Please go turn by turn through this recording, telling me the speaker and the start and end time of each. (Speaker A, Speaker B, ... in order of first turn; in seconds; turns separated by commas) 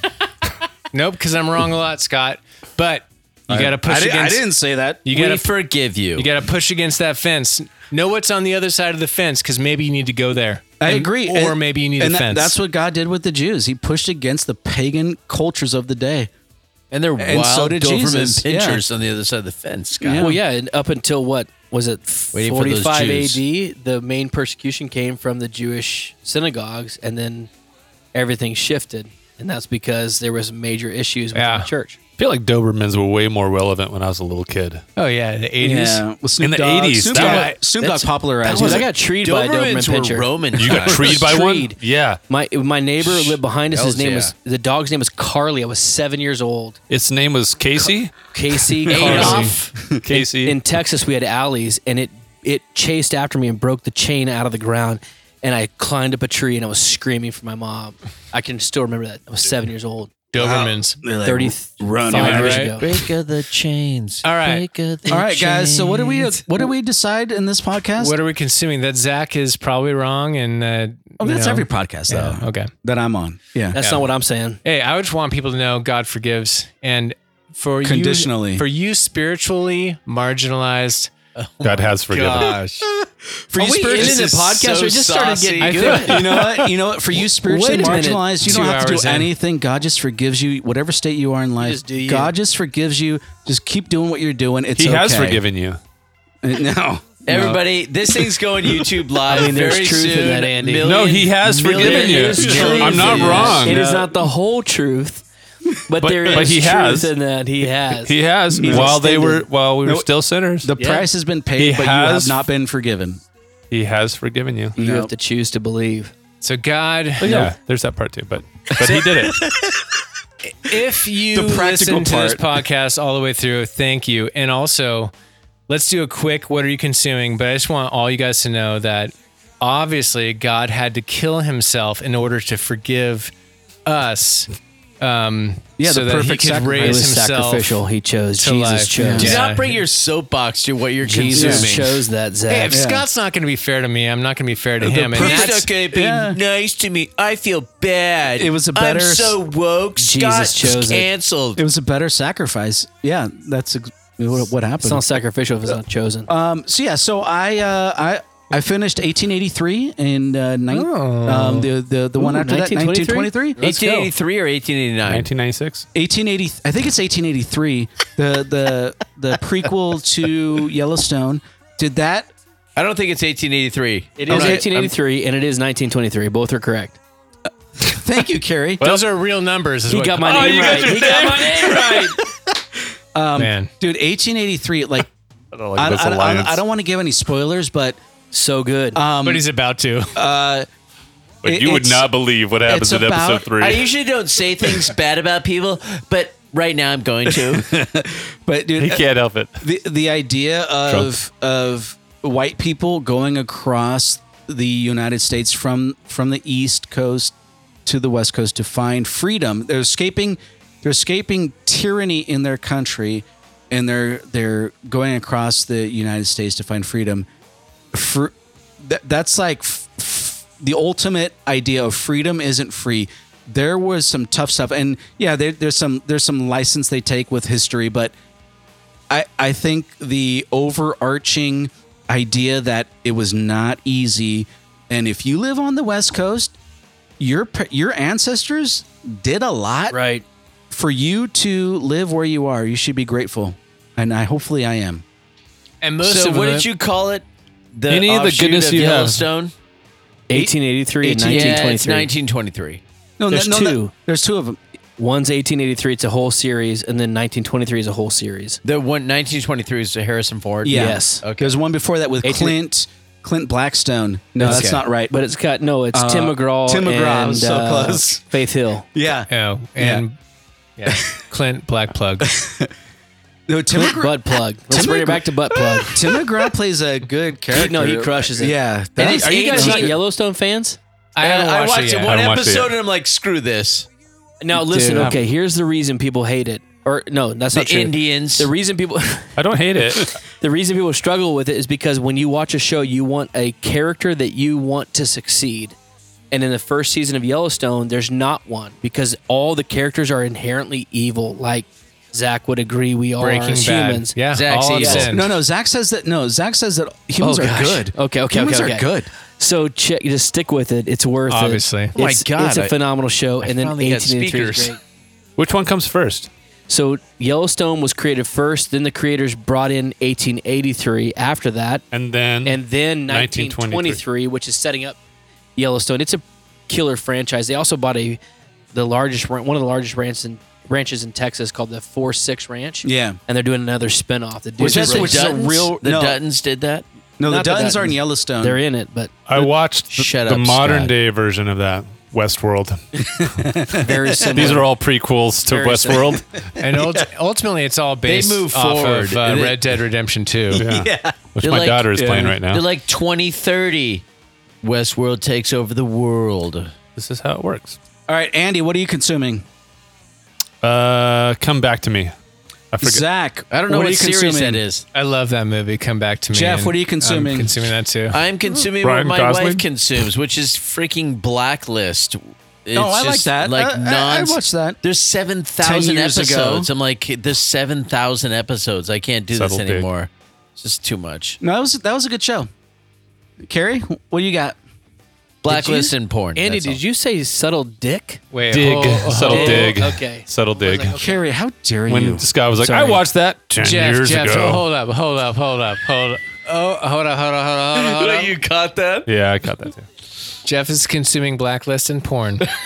Speaker A: 0.9-4.5, Speaker B: 3.5-5.1, Speaker A: 5.0-5.5, Speaker C: 5.1-6.3, Speaker A: 6.2-12.6, Speaker B: 10.8-16.3, Speaker C: 16.9-20.3, Speaker B: 17.2-18.8, Speaker B: 20.0-20.4, Speaker D: 20.2-27.5, Speaker C: 22.3-23.4, Speaker D: 28.1-32.0, Speaker A: 31.3-31.7, Speaker E: 32.2-34.8, Speaker A: 35.0-36.0, Speaker B: 35.6-38.9, Speaker E: 36.4-37.6, Speaker A: 37.1-37.5, Speaker D: 37.8-46.8, Speaker E: 38.5-38.8, Speaker C: 38.7-41.4, Speaker E: 40.6-42.2, Speaker C: 43.7-44.3, Speaker E: 46.9-48.3, Speaker D: 47.8-60.1, Speaker B: 48.9-49.3, Speaker E: 48.9-50.6, Speaker C: 48.9-49.5, Speaker A: 49.0-49.5, Speaker A: 60.3-61.0, Speaker B: 60.4-62.8, Speaker D: 61.2-63.0, Speaker A: 62.1-62.8, Speaker C: 62.3-66.4, Speaker A: 64.2-64.7, Speaker B: 65.1-68.2, Speaker A: 68.0-72.7, Speaker B: 71.2-73.8, Speaker D: 73.7-74.6, Speaker A: 73.8-74.0, Speaker A: 74.6-81.1, Speaker B: 77.8-78.7, Speaker C: 81.3-82.8, Speaker E: 81.6-82.6, Speaker B: 83.5-84.3, Speaker D: 83.6-86.2, Speaker C: 83.9-86.1, Speaker A: 85.6-86.7, Speaker B: 86.0-95.4, Speaker D: 87.4-88.3, Speaker A: 87.8-89.3, Speaker D: 91.6-92.3, Speaker E: 94.8-95.8, Speaker B: 96.4-97.6, Speaker C: 97.3-104.1, Speaker D: 99.3-101.0, Speaker E: 100.8-103.8, Speaker D: 101.7-105.2, Speaker B: 102.5-103.5, Speaker D: 105.9-109.5, Speaker E: 106.0-107.1, Speaker E: 107.7-110.7, Speaker B: 108.6-109.2, Speaker B: 110.6-113.2, Speaker E: 111.6-112.4, Speaker E: 113.7-114.8, Speaker B: 114.8-115.1, Speaker D: 114.8-116.1, Speaker A: 116.4-117.5, Speaker E: 117.2-119.5, Speaker A: 120.5-125.1, Speaker B: 121.2-122.5, Speaker A: 125.7-133.3, Speaker A: 133.9-134.5, Speaker A: 135.0-137.7, Speaker B: 135.8-137.1, Speaker D: 136.8-139.4, Speaker A: 138.4-139.8, Speaker B: 138.9-139.3, Speaker C: 139.2-142.1, Speaker D: 141.0-142.8, Speaker B: 141.4-141.7, Speaker A: 142.5-145.7, Speaker B: 142.7-143.1, Speaker B: 144.8-146.4, Speaker C: 145.2-151.6, Speaker B: 148.4-149.4, Speaker D: 150.0-151.1, Speaker B: 151.6-155.1, Speaker D: 154.8-156.3, Speaker B: 155.7-163.6, Speaker A: 160.7-161.7, Speaker D: 162.2-164.1, Speaker C: 163.6-165.3, Speaker E: 165.1-165.9, Speaker B: 165.9-172.3, Speaker C: 172.8-174.9, Speaker D: 174.2-177.0, Speaker B: 174.3-174.7, Speaker B: 177.8-178.8, Speaker A: 178.8-181.2, Speaker D: 179.9-182.2, Speaker E: 180.2-182.1, Speaker B: 183.1-185.1, Speaker A: 183.4-183.7, Speaker E: 185.5-186.6, Speaker B: 185.8-188.0, Speaker D: 188.3-189.0, Speaker B: 188.9-189.5, Speaker A: 189.2-190.2, Speaker B: 190.2-190.7, Speaker E: 191.4-193.9, Speaker B: 191.4-192.1, Speaker B: 192.7-193.5, Speaker C: 193.6-197.7, Speaker B: 197.3-199.1, Speaker E: 198.8-199.6, Speaker B: 199.6-207.3, Speaker B: 207.8-217.3, Speaker B: 217.9-228.1, Speaker B: 229.1-236.6, Speaker B: 237.2-240.0, Speaker D: 239.9-240.2, Speaker B: 240.7-245.0, Speaker A: 245.8-246.7, Speaker C: 246.0-249.5, Speaker E: 247.9-249.3, Speaker D: 250.3-252.1, Speaker B: 250.3-251.7, Speaker C: 251.2-252.8, Speaker B: 253.2-254.6, Speaker D: 253.3-253.9, Speaker D: 255.0-258.6, Speaker C: 258.6-261.6, Speaker B: 260.6-265.2, Speaker D: 260.7-261.2, Speaker D: 262.2-262.6, Speaker A: 264.4-264.8, Speaker D: 264.4-268.9, Speaker B: 265.9-268.2, Speaker B: 268.9-270.0, Speaker A: 269.3-270.2, Speaker A: 270.8-272.4, Speaker B: 270.9-271.1, Speaker B: 272.2-272.7, Speaker B: 273.5-279.9, Speaker D: 273.8-276.1, Speaker D: 277.5-280.8, Speaker C: 279.0-280.0, Speaker A: 281.2-282.2, Speaker C: 281.2-283.9, Speaker E: 282.1-282.7, Speaker D: 284.4-289.3, Speaker A: 284.5-285.2, Speaker C: 287.5-288.5, Speaker E: 289.4-290.1, Speaker D: 290.1-295.8, Speaker D: 296.3-304.1, Speaker A: 303.2-305.4, Speaker C: 304.3-305.2, Speaker D: 304.8-305.1, Speaker B: 305.1-309.1, Speaker D: 307.2-308.9, Speaker D: 309.4-314.8, Speaker A: 311.3-311.9, Speaker C: 312.0-312.8, Speaker C: 313.4-314.8, Speaker E: 315.4-316.3, Speaker D: 316.7-321.9, Speaker E: 321.9-324.0, Speaker D: 322.5-325.0, Speaker D: 325.6-328.2, Speaker D: 328.7-335.4, Speaker B: 332.8-333.2, Speaker B: 334.6-336.2, Speaker C: 334.6-336.9, Speaker B: 337.2-338.6, Speaker D: 337.2-339.2, Speaker E: 339.3-343.3, Speaker C: 339.4-340.9, Speaker B: 343.2-344.5, Speaker D: 343.8-344.8, Speaker E: 344.3-346.3, Speaker D: 345.5-346.2, Speaker A: 346.6-350.6, Speaker C: 348.1-349.6, Speaker E: 350.6-352.6, Speaker B: 350.6-351.1, Speaker C: 351.4-354.0, Speaker B: 352.0-352.4, Speaker C: 354.6-356.7, Speaker E: 357.0-357.8, Speaker B: 358.1-359.4, Speaker E: 360.6-362.1, Speaker E: 362.7-363.1, Speaker B: 362.8-364.6, Speaker C: 363.5-364.9, Speaker A: 364.9-368.2, Speaker B: 366.3-367.5, Speaker C: 368.1-381.4, Speaker E: 368.8-369.6, Speaker B: 372.7-374.8, Speaker B: 375.6-376.7, Speaker E: 379.3-379.9, Speaker B: 381.4-382.5, Speaker B: 383.4-384.6, Speaker C: 385.4-386.8, Speaker B: 385.4-385.9, Speaker D: 386.4-388.2, Speaker A: 388.3-389.8, Speaker E: 388.5-391.0, Speaker D: 389.2-391.1, Speaker B: 390.9-392.3, Speaker E: 391.9-394.6, Speaker D: 392.6-393.0, Speaker A: 393.6-398.3, Speaker C: 397.7-399.1, Speaker E: 399.1-399.9, Speaker A: 400.4-402.4